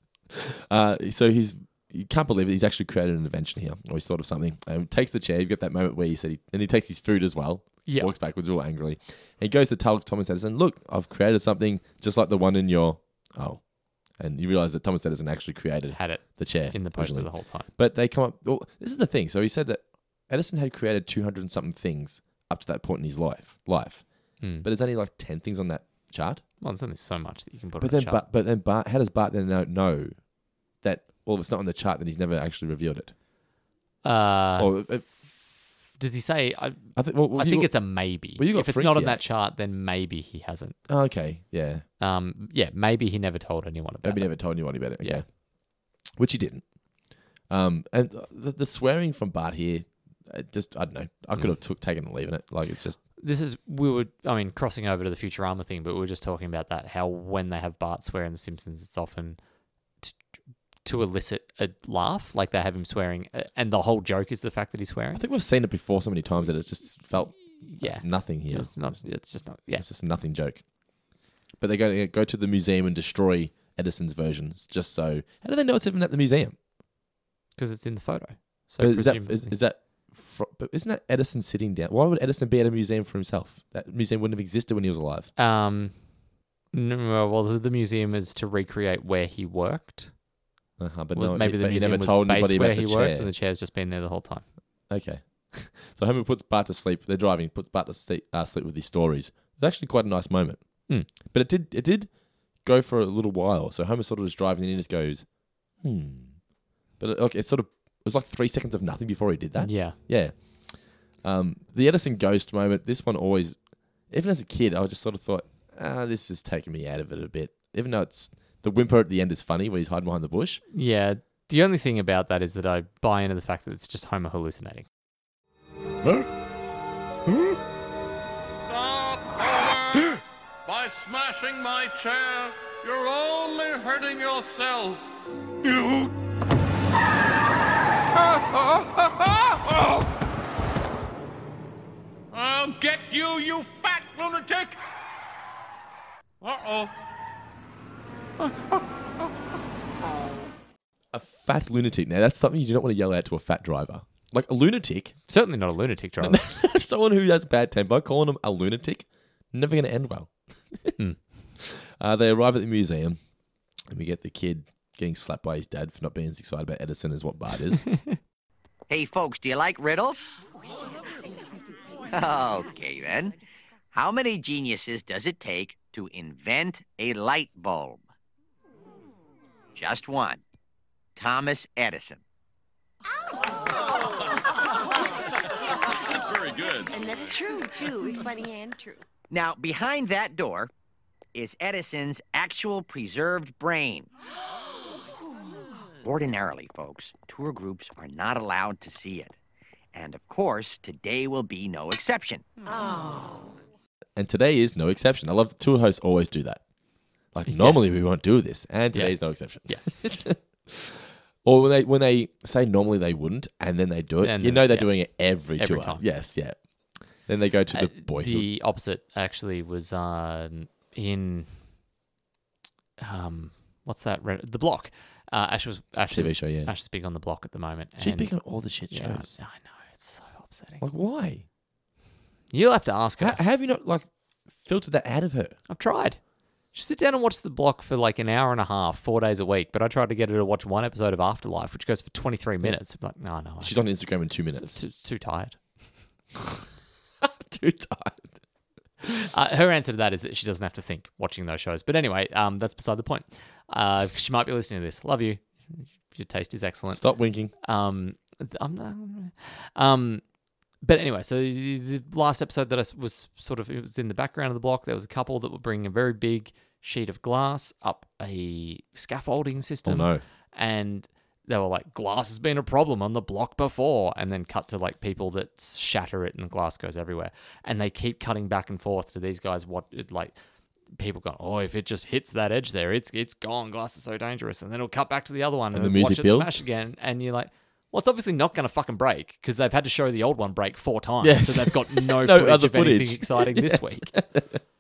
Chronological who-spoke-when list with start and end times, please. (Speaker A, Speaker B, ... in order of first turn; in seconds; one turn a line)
Speaker A: 0.5-26.4
Speaker B: 7.9-8.1
Speaker B: 15.9-17.7
Speaker B: 24.4-24.7
Speaker B: 26.6-28.2
Speaker A: 27.8-30.2
Speaker A: 30.8-33.1
Speaker B: 34.0-35.1
Speaker A: 34.6-35.2
Speaker B: 36.0-40.8
Speaker A: 37.0-39.2
Speaker A: 40.9-41.9
Speaker B: 42.0-45.2
Speaker A: 44.0-45.4
Speaker A: 46.0-46.6
Speaker A: 47.5-53.0
Speaker B: 53.2-59.4
Speaker B: 60.8-65.2
Speaker A: 65.2-70.6
Speaker B: 67.6-69.9
Speaker A: 71.6-76.6
Speaker B: 77.6-79.5
Speaker A: 78.8-85.3
Speaker B: 85.4-86.1
Speaker B: 86.7-90.2
Speaker A: 90.8-93.3
Speaker B: 91.1-94.5
Speaker A: 94.9-105.3
Speaker A: 105.8-106.4
Speaker A: 107.0-120.6
Speaker B: 109.6-110.0
Speaker B: 120.7-124.9
Speaker C: 128.7-135.1
Speaker C: 135.7-136.1
Speaker C: 138.2-140.1
Speaker C: 142.3-144.8
Speaker C: 146.4-146.9
Speaker C: 148.4-148.8
Speaker A: 151.1-155.2
Speaker B: 155.3-156.4
Speaker A: 156.2-160.9
Speaker A: 161.6-163.2
Speaker A: 163.9-167.9
Speaker D: 168.9-170.3
Speaker D: 172.1-173.3
Speaker D: 173.9-178.0
Speaker D: 179.8-180.4
Speaker D: 181.2-182.2
Speaker C: 186.0-187.0
Speaker E: 186.9-189.0
Speaker D: 189.3-190.7
Speaker D: 191.3-194.1
Speaker D: 196.0-199.3
Speaker D: 199.9-202.4
Speaker E: 202.7-203.5
Speaker A: 204.2-206.6
Speaker A: 207.3-218.5
Speaker B: 207.5-207.8
Speaker B: 208.9-209.9
Speaker B: 214.2-216.0
Speaker B: 217.7-221.7
Speaker B: 223.0-230.8
Speaker A: 226.1-226.7
Speaker A: 228.0-229.4
Speaker A: 230.8-231.4
Speaker B: 232.5-233.4
Speaker A: 233.2-235.6
Speaker B: 235.7-236.2
Speaker B: 236.7-244.1
Speaker A: 243.6-244.8
Speaker B: 244.6-245.8
Speaker A: 246.4-246.6
Speaker A: 247.2-248.4
Speaker B: 249.3-257.0
Speaker A: 256.9-257.5
Speaker B: 257.6-260.2
Speaker B: 260.8-280.4
Speaker A: 269.9-270.2
Speaker B: 280.9-294.2
Speaker A: 285.7-286.6
Speaker A: 291.2-294.6